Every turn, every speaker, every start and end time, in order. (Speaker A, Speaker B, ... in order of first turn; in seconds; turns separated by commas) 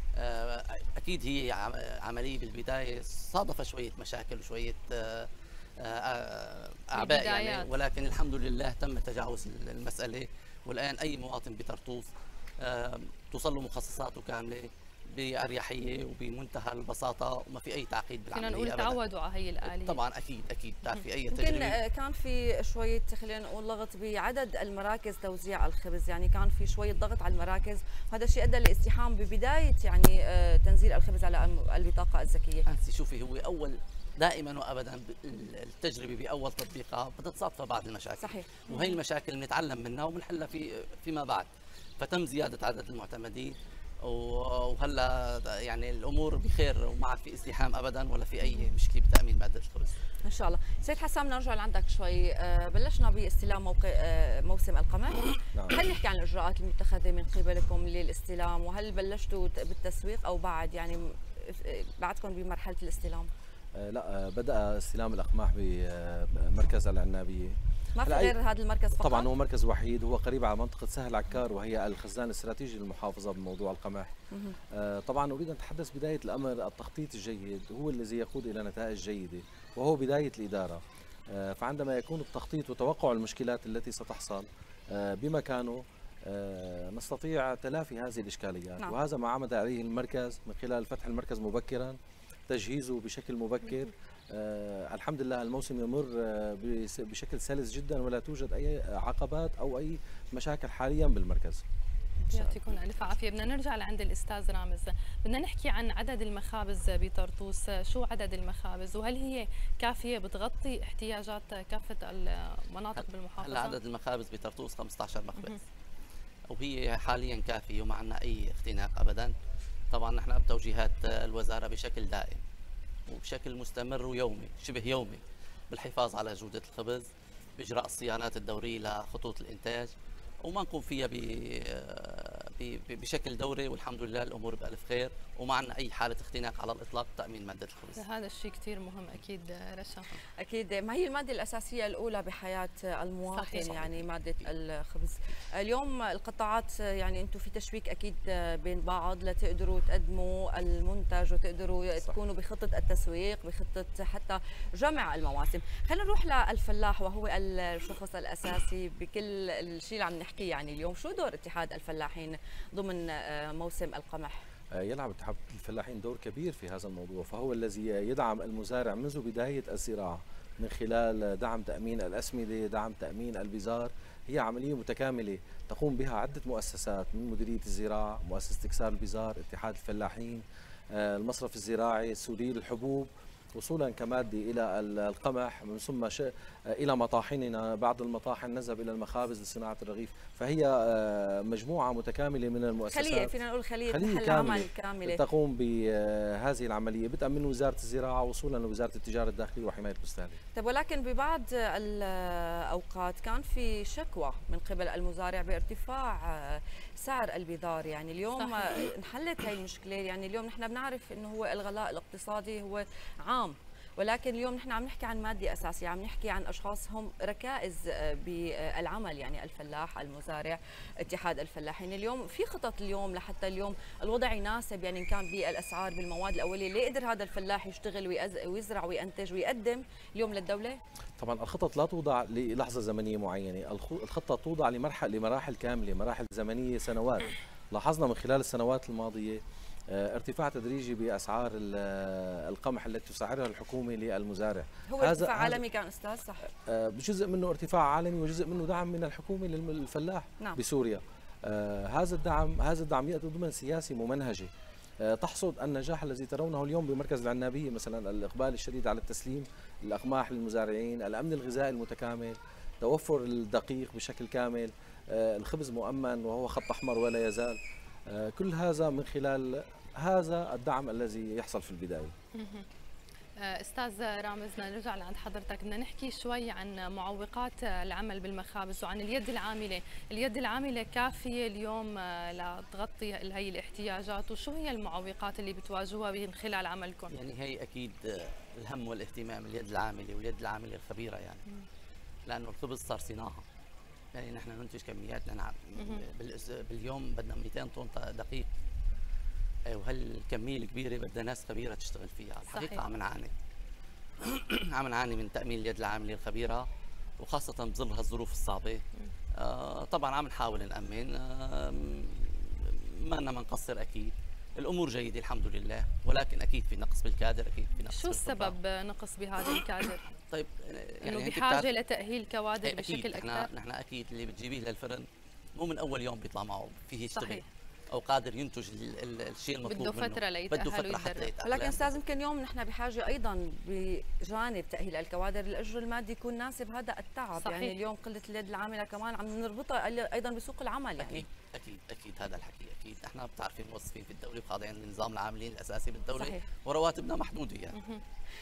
Speaker A: 0.2-19.0, Speaker B: 6.9-7.7, Speaker B: 18.3-20.0, Speaker A: 19.6-21.8, Speaker C: 21.3-32.7, Speaker A: 32.7-50.0, Speaker C: 38.2-38.6, Speaker B: 38.7-39.0, Speaker C: 50.2-63.3, Speaker D: 55.5-55.8, Speaker D: 63.8-68.3, Speaker C: 68.0-69.3, Speaker D: 69.0-74.1, Speaker C: 74.3-74.6, Speaker D: 74.7-80.8, Speaker D: 81.3-92.0, Speaker D: 92.5-101.6, Speaker C: 102.3-102.6, Speaker B: 102.3-113.8, Speaker A: 113.0-115.6, Speaker A: 116.5-119.3, Speaker A: 119.9-122.5, Speaker A: 123.1-138.0, Speaker B: 138.0-140.1, Speaker C: 140.4-164.4, Speaker B: 143.3-143.8, Speaker A: 143.7-143.9, Speaker D: 164.8-193.3, Speaker C: 192.9-195.2, Speaker D: 193.9-200.4, Speaker C: 200.6-230.8, Speaker B: 208.4-208.8, Speaker D: 231.2-245.6, Speaker C: 244.9-246.5, Speaker D: 246.6-254.5, Speaker D: 255.0-272.1, Speaker B: 272.4-272.7, Speaker B: 273.4-287.2, Speaker A: 287.1-291.4, Speaker A: 292.3-293.4, Speaker A: 294.1-298.5, Speaker B: 295.8-296.1, Speaker A: 299.7-303.3, Speaker B: 302.5-302.9, Speaker A: 304.2-308.8, Speaker A: 309.4-318.6, Speaker B: 317.9-320.0, Speaker A: 320.3-321.7, Speaker B: 321.0-323.5, Speaker A: 322.6-332.0, Speaker B: 327.1-327.5, Speaker B: 329.6-331.3, Speaker C: 331.4-341.2, Speaker B: 337.4-337.8, Speaker A: 341.0-347.8, Speaker C: 346.1-346.4, Speaker B: 347.8-348.0